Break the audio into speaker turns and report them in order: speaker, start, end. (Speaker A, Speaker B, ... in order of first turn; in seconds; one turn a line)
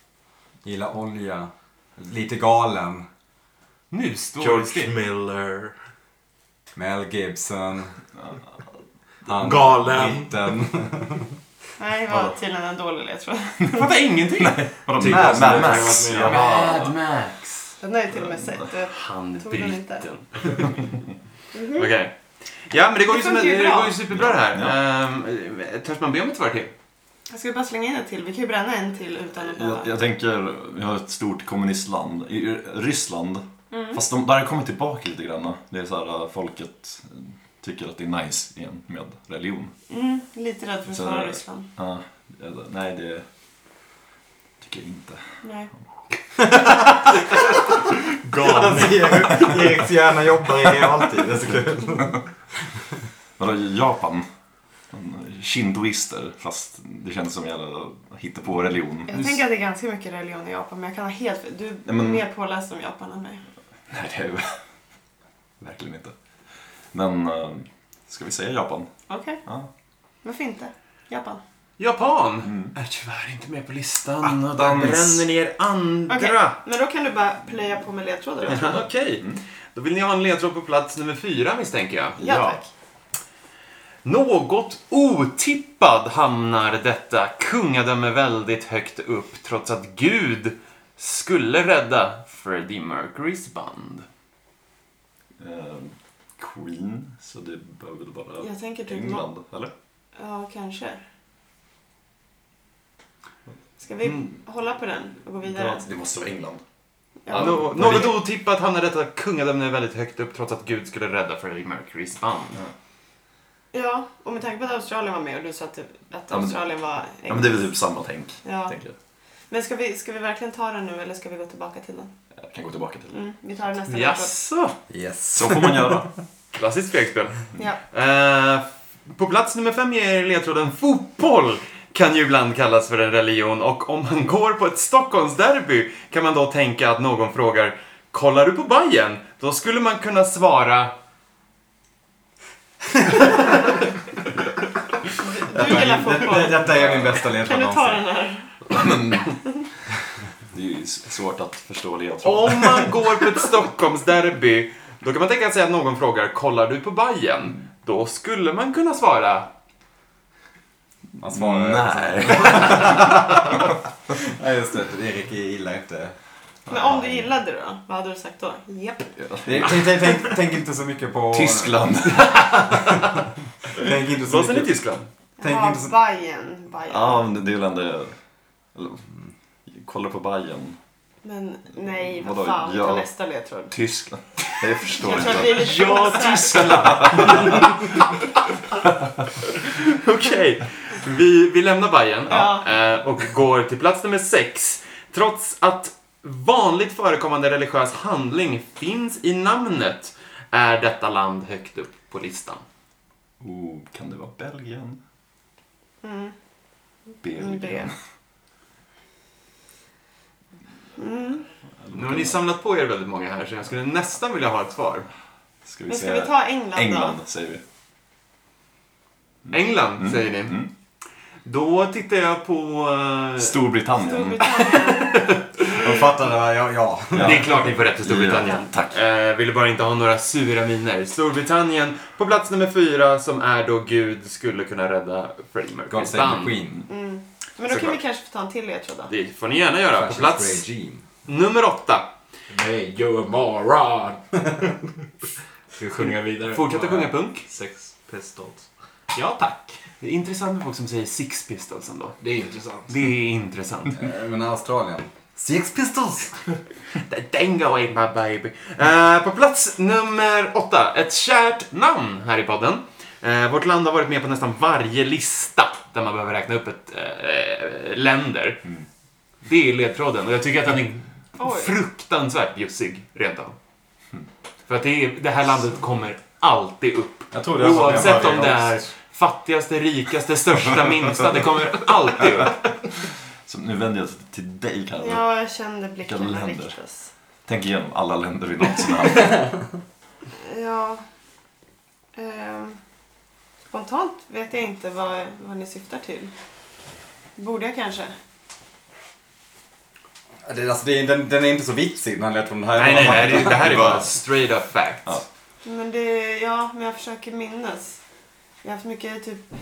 Speaker A: 0.6-3.1
Speaker B: 3.9-4.9
Speaker C: 4.4-5.8
Speaker A: 6.8-8.0
Speaker C: 9.2-10.4
Speaker A: 9.3-11.3
Speaker D: 11.8-13.9
Speaker E: 12.1-12.3
Speaker B: 13.7-14.6
Speaker E: 14.4-16.9
Speaker C: 15.0-16.4
Speaker A: 15.0-16.0
Speaker B: 15.4-17.8
Speaker D: 17.8-20.1
Speaker E: 18.2-18.7
Speaker B: 18.9-20.8
Speaker D: 21.5-21.9
Speaker B: 21.8-26.7
Speaker D: 23.1-24.0
Speaker E: 24.1-24.8
Speaker D: 27.3-29.9
Speaker E: 29.4-39.7
Speaker D: 33.7-34.0
Speaker D: 39.9-41.7
Speaker E: 40.9-43.2
Speaker E: 44.6-45.2
Speaker D: 45.4-45.7
Speaker A: 46.5-46.8
Speaker B: 48.4-48.7
Speaker A: 48.4-52.1
Speaker E: 48.6-49.6
Speaker E: 53.4-54.3
Speaker E: 54.9-59.3
Speaker D: 59.1-63.4
Speaker B: 59.1-59.4
Speaker E: 61.9-62.2
Speaker E: 63.9-64.6
Speaker E: 65.6-66.1
Speaker E: 66.9-68.9
Speaker D: 69.1-69.4
Speaker D: 70.2-71.4
Speaker B: 71.8-76.6
Speaker E: 72.5-72.7
Speaker E: 74.4-75.2
Speaker D: 76.1-78.8
Speaker E: 78.5-79.4
Speaker B: 78.5-82.4
Speaker D: 82.2-82.7
Speaker E: 82.2-82.5
Speaker B: 84.0-94.1
Speaker E: 95.4-99.7
Speaker D: 98.4-99.3
Speaker D: 100.2-101.0
Speaker D: 103.8-105.8
Speaker E: 105.4-106.6
Speaker D: 107.3-108.2
Speaker E: 107.3-108.2
Speaker B: 107.3-112.6
Speaker D: 113.7-117.7
Speaker E: 116.3-116.6
Speaker E: 117.2-118.9
Speaker D: 118.4-118.7
Speaker D: 119.5-122.1
Speaker E: 122.4-123.2
Speaker D: 123.1-124.3
Speaker B: 123.9-124.8
Speaker A: 124.9-126.1
Speaker E: 125.3-126.1
Speaker B: 126.5-140.9
Speaker D: 145.2-148.8
Speaker A: 145.5-148.1
Speaker E: 148.7-149.5
Speaker E: 150.5-153.0
Speaker B: 152.2-159.5
Speaker A: 161.2-163.6
Speaker E: 161.3-163.5
Speaker A: 164.1-166.2
Speaker D: 166.7-169.1
Speaker A: 166.8-167.3
Speaker E: 169.2-169.9
Speaker A: 169.4-171.9
Speaker E: 171.3-172.7
Speaker B: 172.0-173.2
Speaker A: 173.7-174.7
Speaker B: 173.8-175.1
Speaker D: 175.4-177.3
Speaker A: 175.4-175.9
Speaker E: 176.9-178.2
Speaker E: 178.8-179.1
Speaker E: 179.7-180.8
Speaker D: 181.2-183.8
Speaker E: 182.0-183.1
Speaker E: 183.7-187.8
Speaker D: 185.0-187.3
Speaker B: 185.1-188.1
Speaker B: 189.5-202.6
Speaker D: 192.3-192.7
Speaker E: 203.4-205.0
Speaker D: 206.0-206.3
Speaker E: 207.2-207.9
Speaker D: 207.4-207.9
Speaker D: 211.0-211.4
Speaker E: 211.8-212.4
Speaker B: 211.9-215.1
Speaker E: 215.7-217.6
Speaker D: 215.9-217.2
Speaker E: 219.5-220.7
Speaker B: 219.5-220.6
Speaker B: 221.4-223.6
Speaker E: 223.4-224.7
Speaker D: 224.0-225.4
Speaker B: 224.6-225.9
Speaker A: 225.8-227.5
Speaker E: 227.1-229.0
Speaker B: 227.2-236.6
Speaker A: 235.9-236.9
Speaker D: 236.9-239.1
Speaker B: 237.7-238.0
Speaker B: 239.1-240.6
Speaker A: 239.9-241.0
Speaker B: 241.3-242.1
Speaker C: 242.5-244.8
Speaker C: 245.8-249.8
Speaker B: 246.0-247.5
Speaker B: 250.0-252.2
Speaker C: 252.2-253.0
Speaker B: 252.9-254.0
Speaker A: 253.9-256.4
Speaker B: 257.0-268.7
Speaker B: 269.4-273.6
Speaker D: 271.4-271.8
Speaker B: 274.7-282.6
Speaker A: 277.3-278.9
Speaker E: 283.5-285.2
Speaker D: 285.0-287.1
Speaker E: 286.1-286.8
Speaker E: 287.5-289.6
Speaker D: 290.4-291.0
Speaker D: 292.1-292.8
Speaker D: 293.7-296.3
Speaker D: 297.4-298.1
Speaker A: 300.4-304.0
Speaker B: 302.8-305.2
Speaker E: 303.3-304.1
Speaker D: 305.6-308.0
Speaker D: 308.6-309.5